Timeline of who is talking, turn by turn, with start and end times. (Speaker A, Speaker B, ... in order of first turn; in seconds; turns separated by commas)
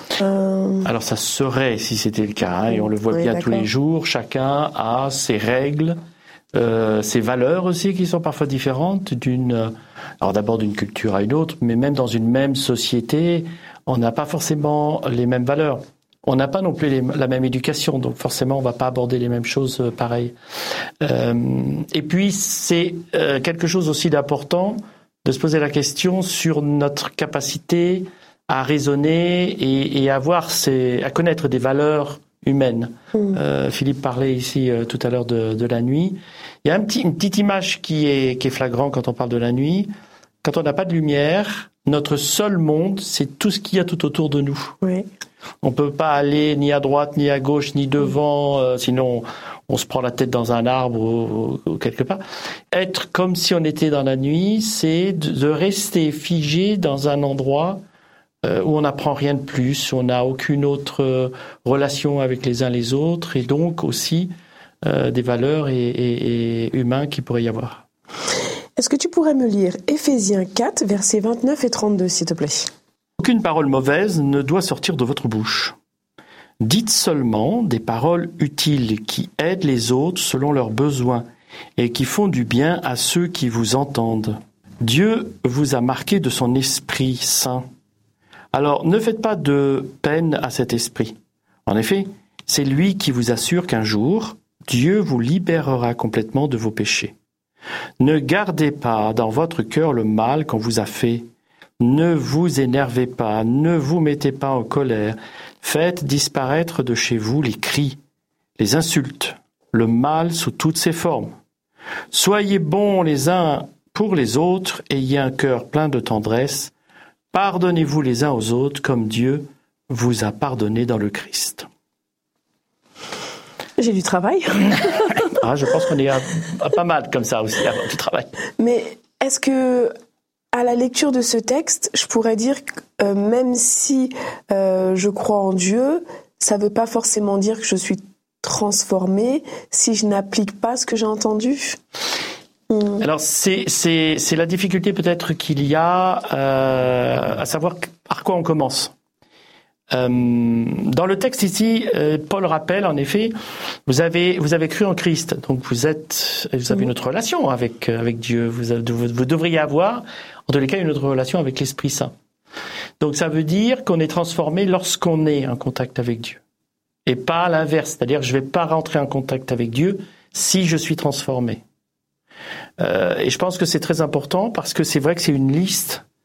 Speaker A: 0.2-0.9, Speaker B: 0.8-6.0, Speaker A: 2.7-3.7, Speaker B: 6.5-20.3, Speaker B: 21.0-39.9, Speaker B: 40.4-44.7, Speaker A: 44.8-45.1, Speaker B: 45.6-57.8, Speaker B: 58.4-64.3, Speaker B: 64.8-67.8, Speaker A: 68.8-72.7, Speaker B: 73.2-75.7, Speaker B: 76.6-81.2, Speaker B: 81.8-87.7, Speaker B: 88.5-97.1, Speaker B: 98.0-101.3, Speaker B: 101.8-108.0, Speaker B: 108.6-111.3, Speaker B: 112.1-116.7, Speaker B: 117.3-121.7, Speaker A: 123.8-125.2, Speaker B: 125.3-128.3, Speaker A: 128.6-129.9, Speaker A: 130.5-141.8, Speaker A: 142.7-143.0, Speaker B: 143.0-148.9, Speaker B: 149.9-153.3, Speaker B: 153.9-162.1, Speaker B: 163.0-166.4, Speaker B: 167.1-171.6, Speaker B: 172.8-176.0